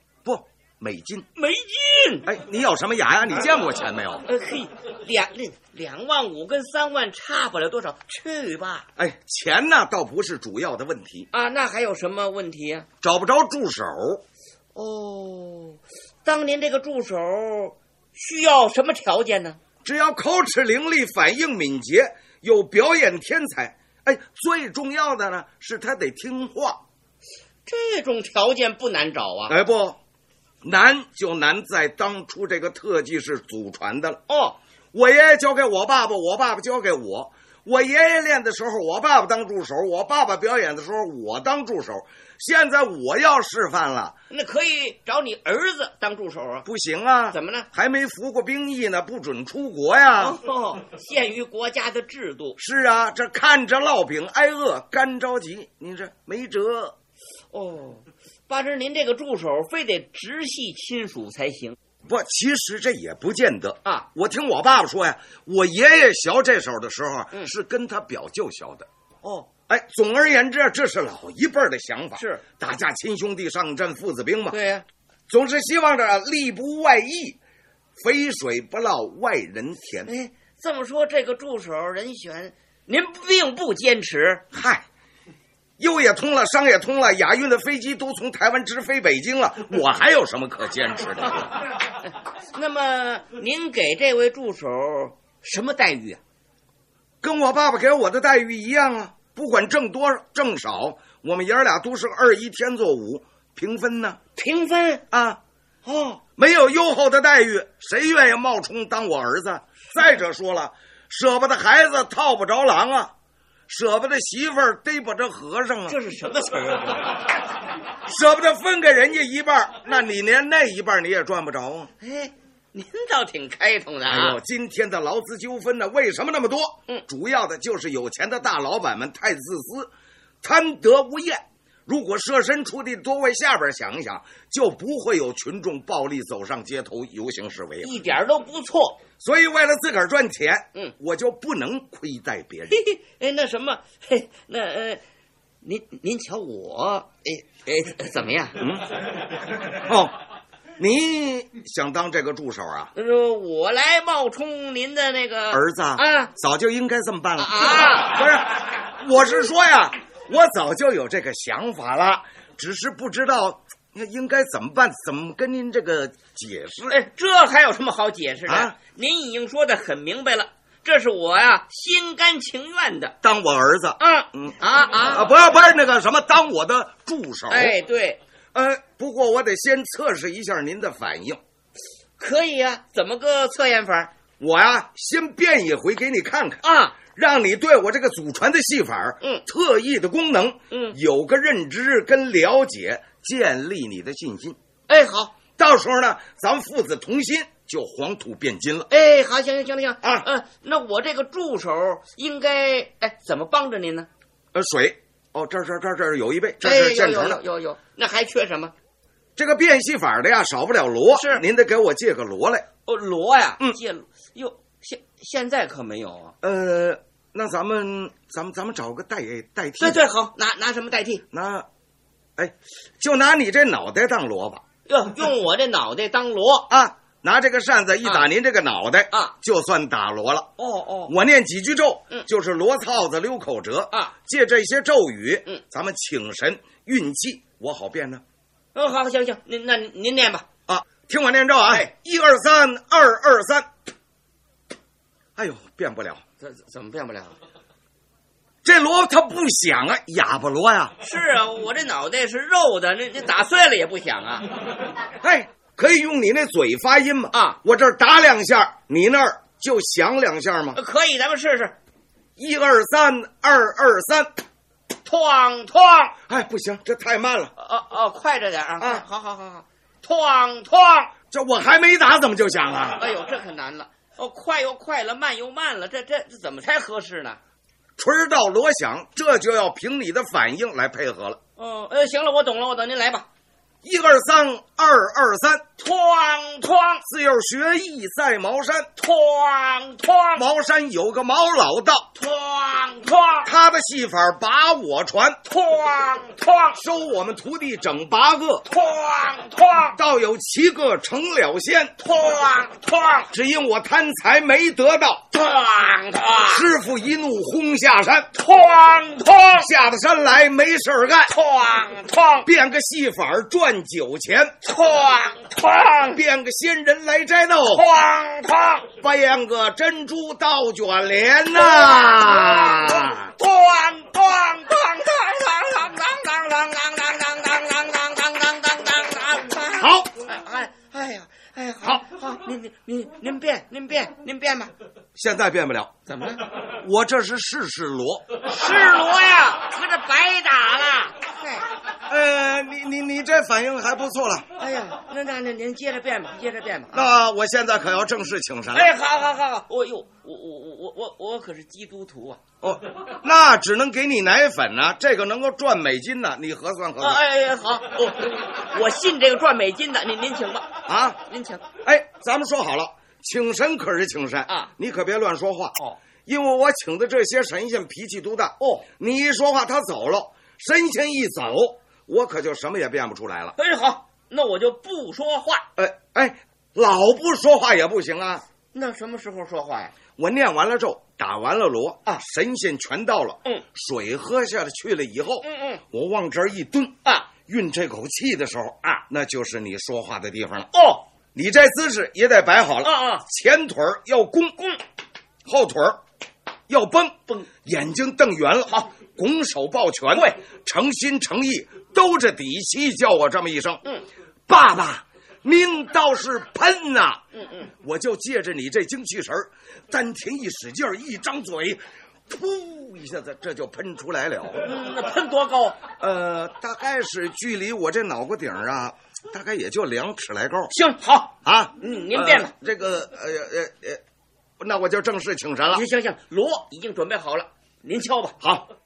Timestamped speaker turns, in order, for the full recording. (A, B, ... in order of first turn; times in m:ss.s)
0:00.2-0:01.3 A
0:01.4-0:02.3 B
0:02.2-0:04.3 A
0:04.3-0:08.9 B
0:09.0-0:11.3 A
0:11.3-0:12.9 B
0:13.0-0:14.2 A
0:14.8-0:19.6 B
0:19.8-0:26.8 A
0:27.7-0:29.6 B
0:29.5-0:30.0 A
0:30.6-0:34.2 A
0:34.3-0:34.6 B
0:34.9-0:44.2 A
0:44.3-0:46.7 B
0:46.6-0:50.4 A
0:47.3-0:47.7 B
0:50.2-0:52.6 B
0:52.6-0:57.0 A
0:57.5-1:01.8 B
1:02.1-1:08.9 A
1:09.2-1:09.5 B
1:09.7-1:14.6 A
1:12.2-1:12.4 B
1:14.5-1:14.8 B
1:15.3-1:17.4 A
1:18.0-1:20.1 A
1:20.1-1:24.4 B
1:24.5-1:24.9 A
1:25.8-1:31.5 A
1:32.5-1:36.2 B
1:37.2-1:44.2 A
1:44.4-1:45.0 B
1:45.1-1:45.4 A
1:45.9-1:46.2 B
1:46.1-1:53.1 A
1:53.7-1:56.0 A
1:55.9-1:57.2 B
1:58.1-2:01.9 A
2:02.0-2:04.4 B
2:04.1-2:09.9 A
2:10.4-2:18.0 A
2:17.8-2:19.0 B
2:19.2-2:22.8 A
2:22.7-2:25.0 B
2:25.6-2:28.6 B
2:28.6-2:28.9 A
2:29.8-2:30.2 A
2:30.8-2:32.9 A
2:33.0-2:36.3 B
2:35.5-2:47.0 A
2:37.4-2:38.2 B
2:46.9-2:53.2 B
2:48.5-2:48.7 A
2:53.2-2:57.8 A
2:54.0-2:55.3 B
2:57.5-2:58.2 B
2:58.5-3:01.4 A
3:02.2-3:04.1 B
3:04.4-3:14.6 A
3:06.6-3:07.0 B
3:10.7-3:11.0 B
3:14.9-3:15.4 B
3:15.6-3:18.9 A
3:18.9-3:24.1 B
3:24.5-3:27.4 A
3:26.6-3:28.7 B
3:29.4-3:32.7 A
3:31.1-3:31.4 B
3:32.9-3:36.4 B
3:36.4-3:40.0 A
3:39.8-3:41.2 B
3:41.3-3:41.7 A
3:42.4-3:44.6 A
3:44.9-3:46.7 B
3:46.7-3:50.5 A
3:50.6-3:51.1 B
3:51.1-3:58.2 A
3:58.8-4:00.5 B
4:00.7-4:03.7 A
4:05.4-4:06.2 A
4:06.4-4:07.4 B
4:08.6-4:10.9 A
4:11.0-4:14.5 B
4:15.2-4:20.8 A
4:17.3-4:17.6 B
4:20.8-4:21.8 B
4:22.4-4:24.3 A
4:25.1-4:26.2 B
4:26.3-4:27.5 A
4:27.6-4:31.1 B
4:31.3-4:33.0 A
4:33.0-4:37.4 B
4:38.0-4:41.4 A
4:41.6-4:43.3 B
4:43.8-4:45.6 A
4:45.8-4:47.0 B
4:47.0-4:48.9 A
4:49.0-4:50.4 B
4:50.4-4:52.1 A
4:52.2-4:53.5 B
4:53.4-4:55.4 A
4:55.5-4:56.8 B
4:56.8-4:58.6 A
4:58.7-5:00.0 B
5:00.0-5:02.0 A
5:02.0-5:03.3 B
5:03.3-5:05.2 A
5:05.3-5:06.7 B
5:06.5-5:08.3 A
5:08.4-5:09.7 B
5:09.6-5:11.3 A
5:11.3-5:12.5 B
5:12.4-5:14.5 A
5:14.6-5:16.2 B
5:16.1-5:17.8 A
5:17.7-5:18.9 B
5:19.0-5:23.3 A
5:21.6-5:34.7 B
5:29.8-5:30.1 A
5:35.2-5:35.9 A
5:36.1-5:36.5 B
5:36.7-5:38.4 A
5:38.5-5:41.7 B
5:42.1-5:44.5 A
5:44.6-5:47.0 B
5:46.9-5:48.9 A
5:48.7-5:52.4 B
5:52.6-5:57.2 A
5:57.0-6:00.7 B
6:00.9-6:01.2 A
6:01.3-6:01.7 B
6:01.8-6:05.8 A
6:06.3-6:13.6 A
6:13.6-6:15.7 B
6:15.8-6:18.4 A
6:18.7-6:19.9 B
6:20.2-6:30.7 A
6:25.4-6:25.8 B
6:30.7-6:31.0 B
6:31.4-6:34.6 A
6:32.8-6:33.2 B
6:35.5-6:36.0 A
6:36.7-6:43.8 A
6:44.5-6:47.2 A
6:47.3-6:47.7 B
6:47.8-6:54.7 A
6:54.6-6:55.8 B
6:56.0-7:00.7 A
7:00.7-7:02.5 B
7:01.4-7:04.0 A
7:04.6-7:05.8 A
7:05.7-7:08.4 B
7:08.4-7:08.7 A